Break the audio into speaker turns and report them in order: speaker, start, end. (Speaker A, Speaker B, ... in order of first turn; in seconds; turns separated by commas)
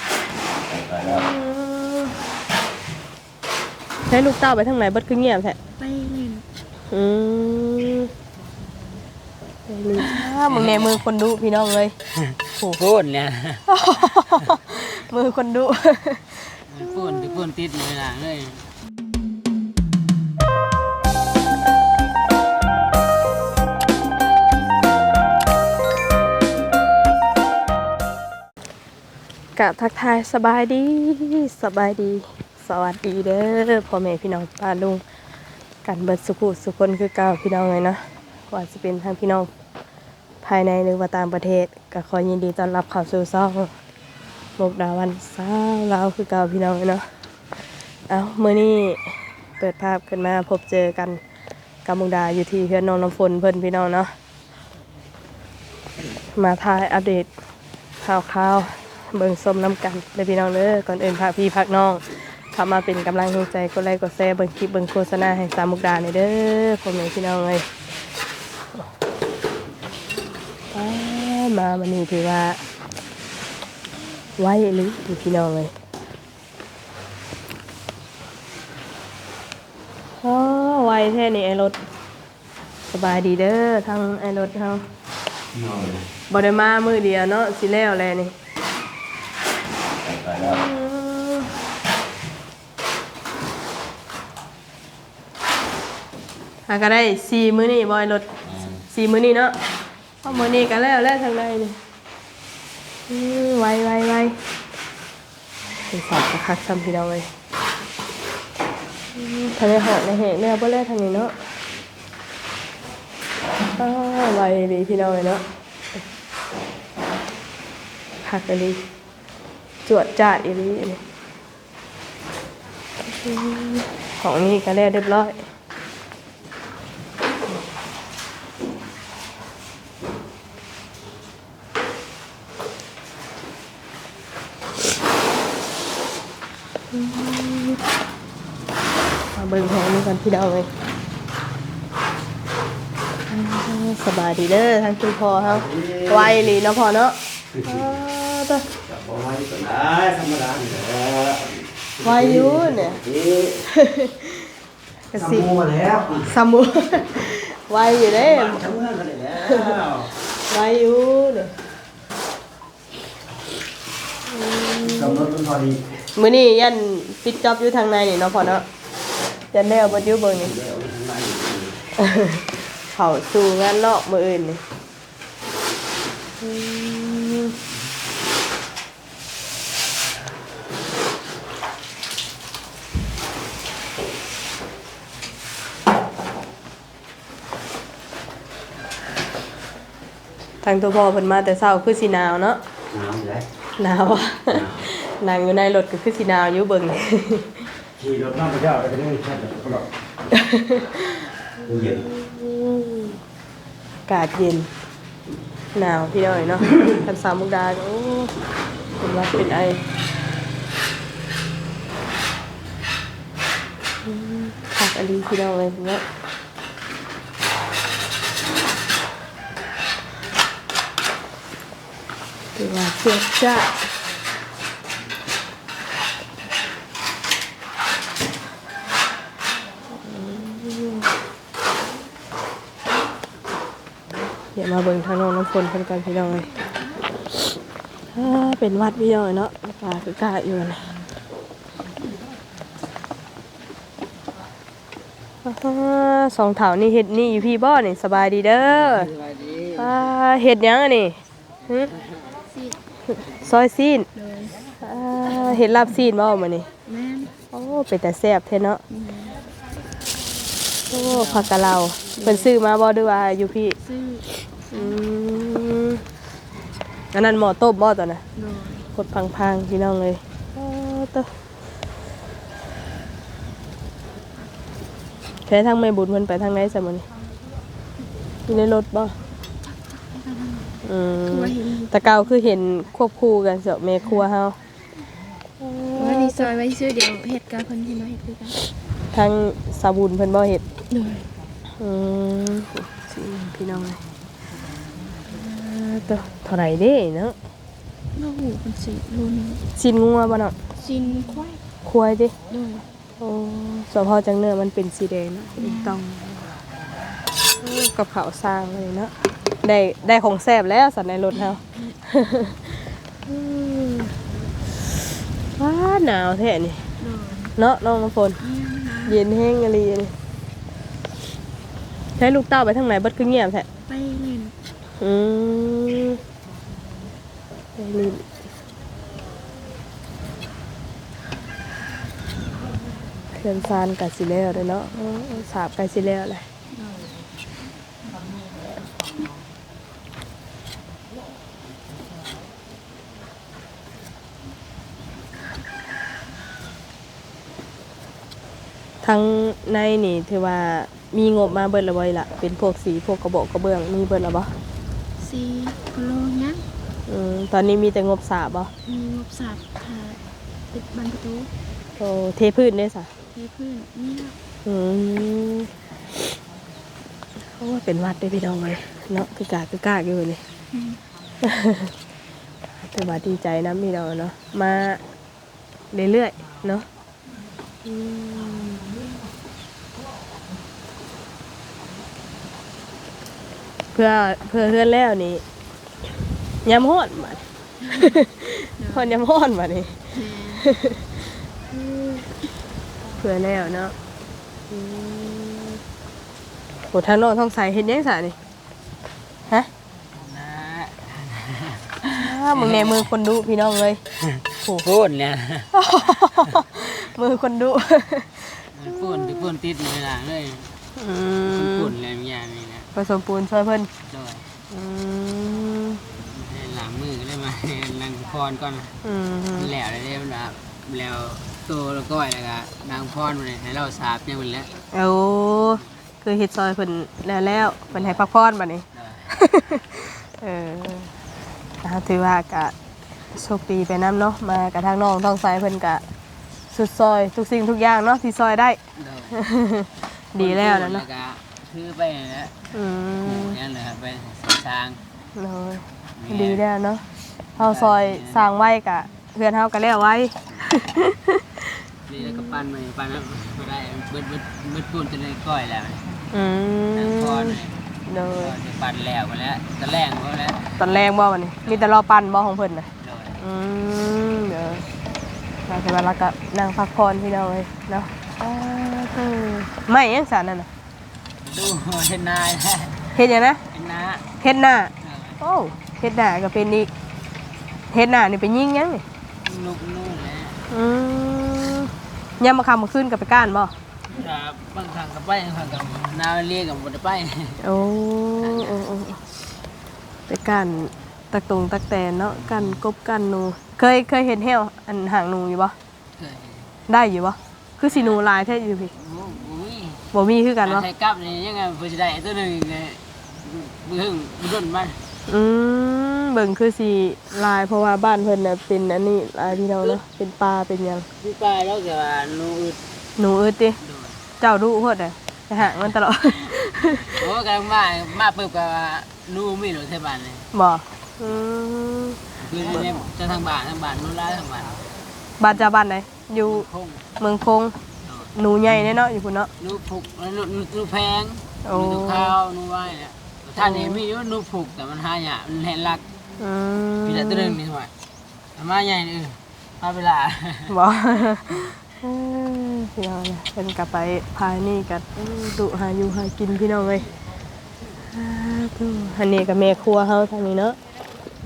Speaker A: 0.7-1.2, Speaker B: 1.1-2.2, Speaker B: 4.1-5.6, Speaker C: 5.8-6.5, Speaker B: 6.9-8.1, Speaker B: 9.7-11.9, Speaker D: 10.4-11.0, Speaker D: 12.8-13.6, Speaker B: 13.7-17.4, Speaker D: 16.7-18.7, Speaker B: 29.6-35.0, Speaker B: 35.8-39.5, Speaker B: 40.4-43.7, Speaker B: 44.6-47.1, Speaker B: 48.1-51.2, Speaker B: 51.9-54.1, Speaker B: 56.3-57.3, Speaker B: 58.0-67.7, Speaker B: 70.7-72.6, Speaker B: 74.4-75.7, Speaker B: 80.2-81.8, Speaker B: 82.9-84.9, Speaker A: 85.5-86.0, Speaker B: 86.3-88.3, Speaker A: 90.0-90.6, Speaker B: 90.5-91.5, Speaker B: 96.7-98.3, Speaker B: 98.8-99.6, Speaker B: 100.2-101.8, Speaker B: 103.1-104.4, Speaker B: 105.9-107.3, Speaker B: 109.2-111.3, Speaker B: 113.7-115.4, Speaker B: 118.2-118.8, Speaker B: 119.8-121.0, Speaker B: 123.0-125.5, Speaker B: 136.9-137.8, Speaker B: 139.3-140.7, Speaker B: 143.3-148.7, Speaker A: 148.9-153.6, Speaker B: 152.0-153.1, Speaker B: 153.6-154.5, Speaker B: 155.1-155.6, Speaker A: 155.3-156.2, Speaker B: 156.1-158.7, Speaker A: 158.6-159.6, Speaker B: 159.3-161.5, Speaker B: 164.3-165.3, Speaker A: 165.0-166.0, Speaker B: 166.1-168.7, Speaker B: 169.5-170.6, Speaker A: 170.5-171.8, Speaker B: 172.0-174.6, Speaker B: 176.4-177.5, Speaker B: 190.6-192.6, Speaker A: 192.9-193.5, Speaker B: 193.8-197.7, Speaker A: 198.0-199.9, Speaker B: 200.3-203.1, Speaker A: 201.7-202.0, Speaker B: 204.1-204.7, Speaker B: 205.7-208.3, Speaker B: 209.0-209.8, Speaker B: 214.1-216.1, Speaker B: 222.6-223.8, Speaker B: 230.1-231.1, Speaker B: 234.6-236.5, Speaker B: 238.1-240.9, Speaker B: 245.4-249.1, Speaker D: 248.8-249.9, Speaker B: 249.8-251.9, Speaker C: 252.5-252.8, Speaker B: 253.1-254.1, Speaker C: 254.2-254.6, Speaker B: 254.8-256.7, Speaker C: 256.9-257.3, Speaker B: 257.5-258.8, Speaker C: 258.9-259.4, Speaker B: 260.9-263.8, Speaker C: 262.1-262.5, Speaker C: 263.8-265.0, Speaker B: 264.7-266.0, Speaker B: 267.1-268.2, Speaker C: 268.4-268.9, Speaker B: 268.9-271.3, Speaker B: 275.5-277.1, Speaker B: 278.5-279.1, Speaker C: 279.6-282.1, Speaker B: 280.8-284.6, Speaker B: 285.6-286.6, Speaker C: 285.9-288.6, Speaker B: 289.1-290.6, Speaker C: 290.9-291.3, Speaker B: 291.8-294.0, Speaker B: 295.3-297.4, Speaker C: 298.1-299.6, Speaker B: 299.8-300.6, Speaker C: 300.8-301.6, Speaker B: 301.9-302.3, Speaker C: 302.5-302.9, Speaker B: 303.2-306.6, Speaker C: 305.6-306.0, Speaker B: 307.6-314.2, Speaker C: 311.7-312.0, Speaker B: 315.6-316.9, Speaker C: 317.0-317.6, Speaker B: 317.6-318.4, Speaker C: 318.4-319.2, Speaker B: 319.1-320.1, Speaker B: 322.2-323.7, Speaker C: 323.9-324.6, Speaker B: 325.0-326.2, Speaker B: 327.8-328.2, Speaker B: 333.3-336.5, Speaker C: 336.8-337.1, Speaker B: 349.0-354.5, Speaker C: 355.2-356.7, Speaker B: 357.1-358.7, Speaker C: 358.9-361.5, Speaker B: 362.0-363.1, Speaker C: 363.3-364.4, Speaker B: 364.6-365.7, Speaker B: 367.4-370.4, Speaker C: 370.7-371.0, Speaker B: 371.4-371.9, Speaker B: 372.8-375.0, Speaker B: 375.9-376.9, Speaker B: 377.9-379.0, Speaker B: 383.9-385.4, Speaker B: 386.6-387.4, Speaker B: 387.9-390.1, Speaker C: 388.8-389.1, Speaker C: 390.1-390.7, Speaker B: 390.6-391.2, Speaker B: 391.7-392.3, Speaker B: 393.2-393.9, Speaker B: 394.7-395.8, Speaker B: 396.9-398.4, Speaker D: 400.1-403.0, Speaker B: 402.0-404.0, Speaker D: 404.8-405.7, Speaker B: 405.7-409.5, Speaker D: 408.7-410.8, Speaker B: 410.9-411.9, Speaker D: 411.5-412.9, Speaker B: 412.9-413.9, Speaker D: 414.1-414.5, Speaker B: 414.7-416.0, Speaker D: 416.3-418.9, Speaker B: 419.0-419.7, Speaker D: 419.6-424.7, Speaker B: 424.9-431.1, Speaker D: 427.9-428.2, Speaker D: 428.9-429.3, Speaker B: 431.8-432.7, Speaker B: 433.3-436.0, Speaker B: 436.7-438.8, Speaker D: 439.0-439.4, Speaker B: 439.3-441.1, Speaker D: 440.4-442.5, Speaker B: 442.7-443.6, Speaker D: 443.2-445.0, Speaker B: 445.4-447.0, Speaker D: 446.2-446.6, Speaker D: 447.6-448.5, Speaker B: 447.6-452.6, Speaker D: 452.1-456.2, Speaker B: 456.3-458.5, Speaker D: 456.9-457.8, Speaker D: 458.4-460.8, Speaker B: 460.8-464.9, Speaker D: 461.6-461.9, Speaker D: 463.0-463.4, Speaker B: 465.7-470.7, Speaker D: 471.4-473.1, Speaker B: 473.1-473.6, Speaker D: 473.7-474.2, Speaker B: 474.4-476.9, Speaker D: 475.0-475.4, Speaker B: 477.9-479.0, Speaker D: 479.4-480.6, Speaker B: 480.7-483.7, Speaker D: 484.1-487.6, Speaker B: 487.6-489.2, Speaker D: 488.4-488.9, Speaker B: 490.3-495.8, Speaker D: 496.2-496.7, Speaker B: 496.9-498.9, Speaker D: 497.9-498.2, Speaker D: 499.0-500.0, Speaker B: 500.1-500.9, Speaker D: 500.6-505.0, Speaker B: 505.3-511.1, Speaker D: 511.2-512.8, Speaker B: 513.2-513.8, Speaker D: 513.8-514.2, Speaker B: 514.4-517.2, Speaker D: 517.1-520.5, Speaker B: 520.5-522.9, Speaker D: 522.4-524.9, Speaker B: 525.4-526.7, Speaker D: 526.4-527.0, Speaker B: 527.2-527.8, Speaker D: 528.0-528.3, Speaker B: 528.3-529.5, Speaker D: 529.6-536.0, Speaker B: 531.6-532.4, Speaker B: 533.6-534.0, Speaker B: 536.4-537.6, Speaker D: 537.0-537.9, Speaker D: 538.6-540.7, Speaker B: 540.7-547.1, Speaker B: 548.1-550.8